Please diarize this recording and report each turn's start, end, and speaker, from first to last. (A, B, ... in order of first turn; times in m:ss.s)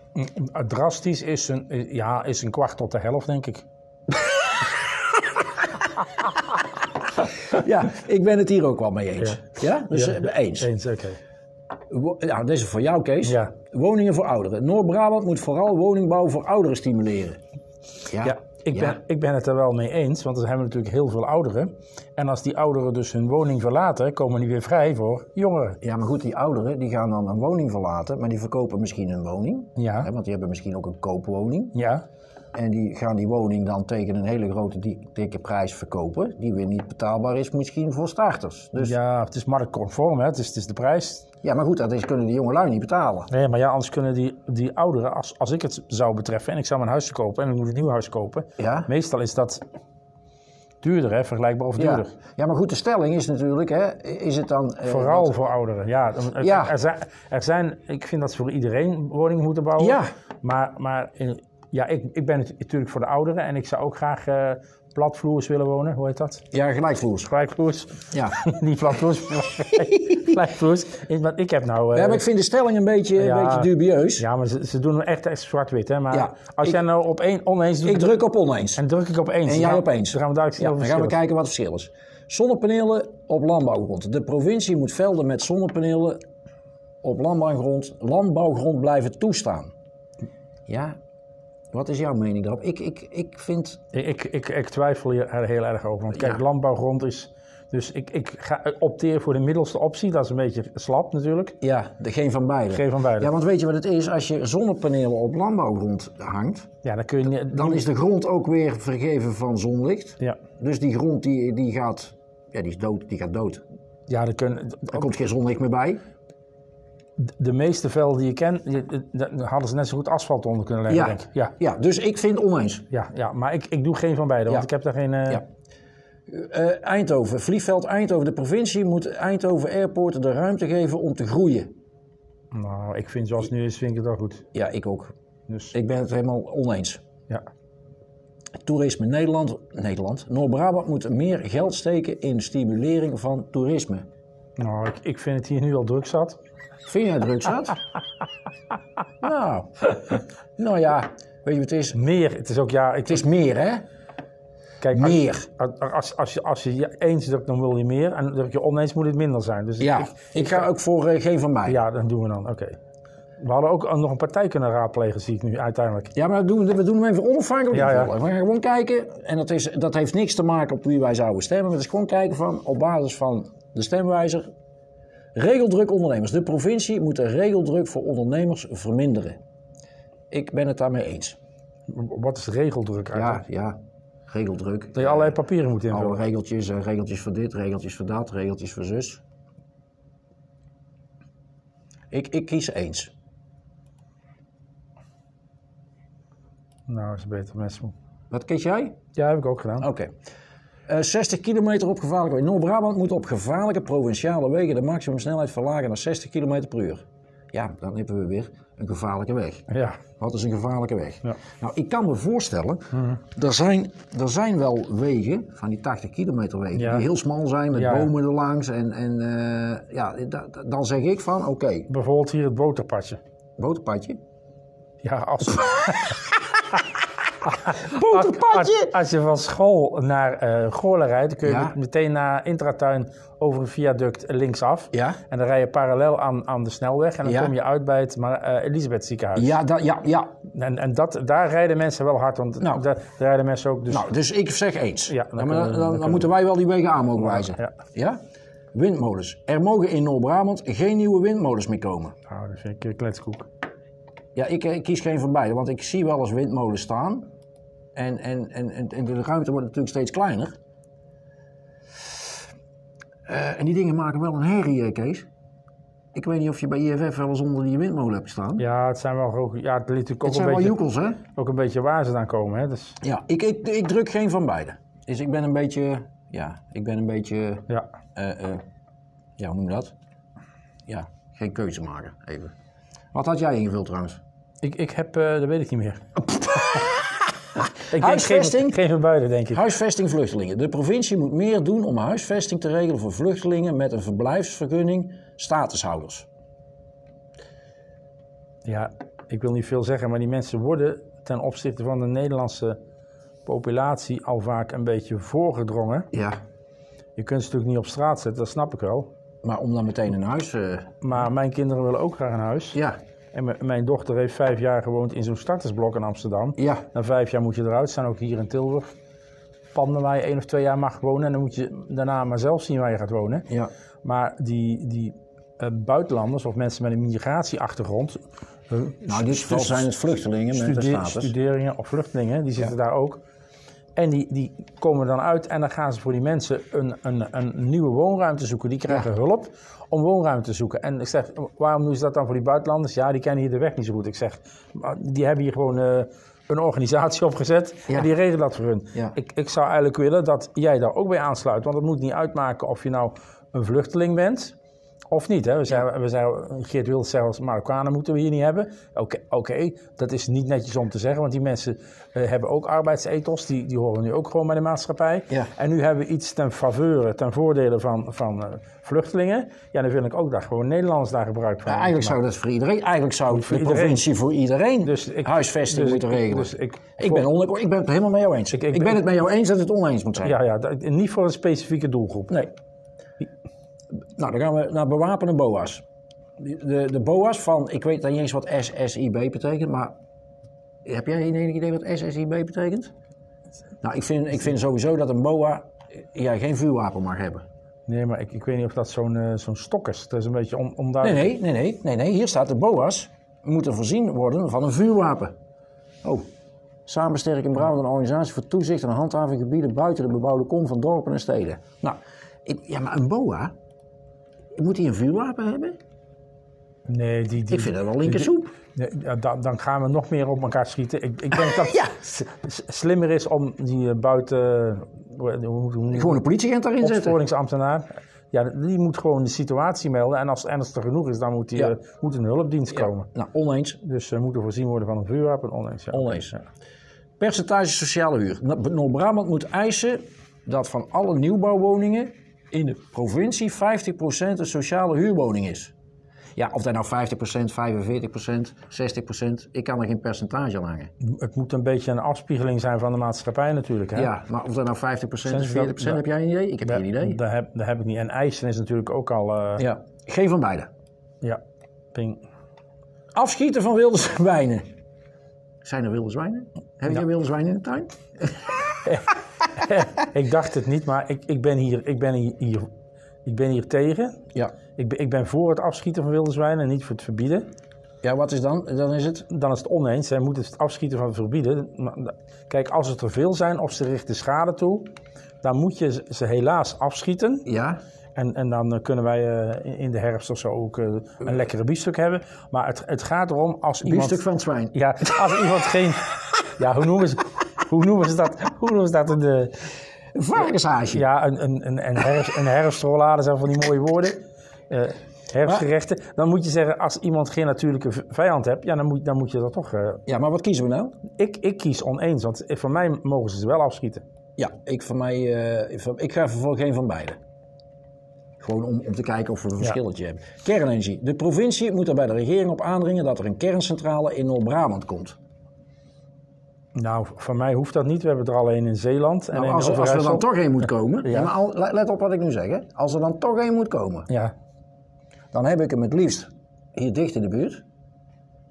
0:00.2-0:03.6 A
0:07.2-0:10.7 B
0:09.9-0:11.2 A
0:11.9-0:17.4 B
0:13.2-0:13.5 A
0:18.1-0:19.0 B
0:18.2-0:25.8 A
0:25.8-0:31.8 B
0:29.8-0:30.1 A
0:31.8-0:32.0 A
0:32.5-0:39.0 B
0:38.8-0:41.3 A
0:41.4-0:43.3 B
0:43.3-0:49.6 A
0:48.6-0:48.9 B
0:50.8-0:52.1 A
0:51.8-0:55.4 B
0:54.9-1:06.5 A
0:56.4-0:56.7 B
0:59.8-1:00.1 B
1:06.5-1:07.3 B
1:07.3-1:12.2 A
1:08.1-1:08.4 B
1:11.9-1:14.2 B
1:13.2-1:18.2 A
1:16.1-1:16.8 B
1:17.8-1:18.8 B
1:18.8-1:21.2 A
1:19.5-1:26.2 B
1:27.0-1:29.7 B
1:30.7-1:31.0 B
1:31.7-1:33.8 B
1:33.9-1:41.6 A
1:36.1-1:36.4 B
1:41.6-1:46.7 B
1:42.7-1:43.3 A
1:46.8-1:47.8 A
1:47.5-1:53.6 B
1:54.1-1:55.1 A
1:54.9-1:56.0 B
1:57.2-2:01.5 A
2:00.9-2:02.9 B
2:02.9-2:05.4 A
2:06.3-2:11.7 B
2:12.5-2:14.5 A
2:14.5-2:15.1 B
2:15.5-2:15.7 A
2:15.7-2:17.0 B
2:18.6-2:24.1 B
2:24.6-2:26.4 A
2:26.9-2:27.8 B
2:29.2-2:32.0 B
2:31.9-2:33.2 A
2:33.1-2:33.8 B
2:34.8-2:40.7 A
2:34.9-2:35.5 B
2:39.8-2:41.8 B
2:41.7-2:42.8 A
2:43.4-2:46.1 A
2:46.2-2:54.5 B
2:47.7-2:48.1 A
2:55.4-2:59.4 B
3:00.3-3:01.4 B
3:01.9-3:03.4 A
3:03.1-3:05.4 B
3:05.0-3:06.2 A
3:05.9-3:09.2 B
3:12.1-3:13.1 B
3:16.9-3:17.9 A
3:18.3-3:19.0 B
3:19.2-3:19.9 A
3:19.8-3:20.1 B
3:20.9-3:41.9 B
3:29.7-3:30.0 A
3:32.9-3:33.2 A
3:36.8-3:37.0 A
3:37.8-3:38.1 A
3:41.9-3:43.2 A
3:43.6-3:44.2 B
3:45.0-3:46.3 A
3:47.5-3:59.6 A
3:47.7-3:48.9 B
3:51.4-3:51.8 B
3:54.9-3:55.2 B
3:57.2-3:57.5 B
3:59.4-4:00.3 B
4:00.5-4:04.1 A
4:03.9-4:08.2 B
4:05.1-4:06.3 A
4:07.3-4:07.7 A
4:08.7-4:12.1 B
4:12.3-4:13.5 A
4:14.4-4:17.3 B
4:18.0-4:20.6 B
4:23.3-4:25.3 B
4:26.1-4:28.6 B
4:28.6-4:30.8 A
4:30.2-4:31.2 B
4:31.4-4:33.0 A
4:33.0-4:38.6 B
4:39.4-4:39.9 B
4:40.9-4:42.5 B
4:43.1-4:44.2 B
4:44.6-4:46.8 A
4:46.3-4:48.8 B
4:47.9-4:49.6 A
4:49.5-4:56.3 B
4:58.6-5:02.8 A
5:03.5-5:06.1 A
5:06.1-5:06.4 B
5:07.2-5:09.1 A
5:09.4-5:10.9 B
5:11.0-5:12.8 A
5:13.3-5:18.9 A
5:16.6-5:16.8 B
5:19.7-5:23.5 A
5:24.0-5:29.9 A
5:29.1-5:31.3 B
5:30.5-5:33.2 A
5:34.0-5:54.6 A
5:55.1-6:12.2 A
6:11.7-6:20.4 B
6:13.3-6:14.1 A
6:14.8-6:17.2 A
6:18.5-6:19.0 A
6:20.2-6:22.4 A
6:24.2-6:25.8 B
6:26.4-6:29.9 B
6:30.8-6:32.9 B
6:33.8-6:37.4 B
6:37.9-6:41.3 A
6:41.0-6:45.3 B
6:46.9-6:53.5 B
6:54.6-6:55.8 B
6:56.9-7:06.2 A
6:57.5-6:58.5 B
7:01.3-7:02.0 B
7:05.9-7:07.2 B
7:06.8-7:13.1 A
7:12.8-7:13.8 B
7:13.8-7:16.4 A
7:15.9-7:16.4 B
7:17.2-7:25.7 B
7:26.4-7:30.9 B
7:31.0-7:34.1 A
7:34.0-7:37.2 B
7:35.3-7:36.0 A
7:36.7-7:39.7 A
7:39.6-7:40.7 B
7:41.9-7:42.2 A
7:43.1-7:44.6 B
7:45.6-7:48.5 B
7:48.8-7:52.7 A
7:53.2-7:54.2 A
7:54.8-7:57.5 A
7:58.0-7:59.3 B
7:59.3-8:04.9 A
8:05.4-8:07.5 A
8:07.5-8:07.8 B
8:08.2-8:14.2 A
8:13.8-8:14.7 B
8:14.7-8:19.7 A
8:20.1-8:21.0 B
8:20.9-8:30.0 A
8:30.1-8:31.0 B
8:31.1-8:34.0 A
8:34.4-8:37.2 B
8:38.4-8:45.2 B
8:46.8-8:50.3 A
8:49.3-8:54.1 B
8:51.0-8:51.3 A
8:55.3-8:57.6 B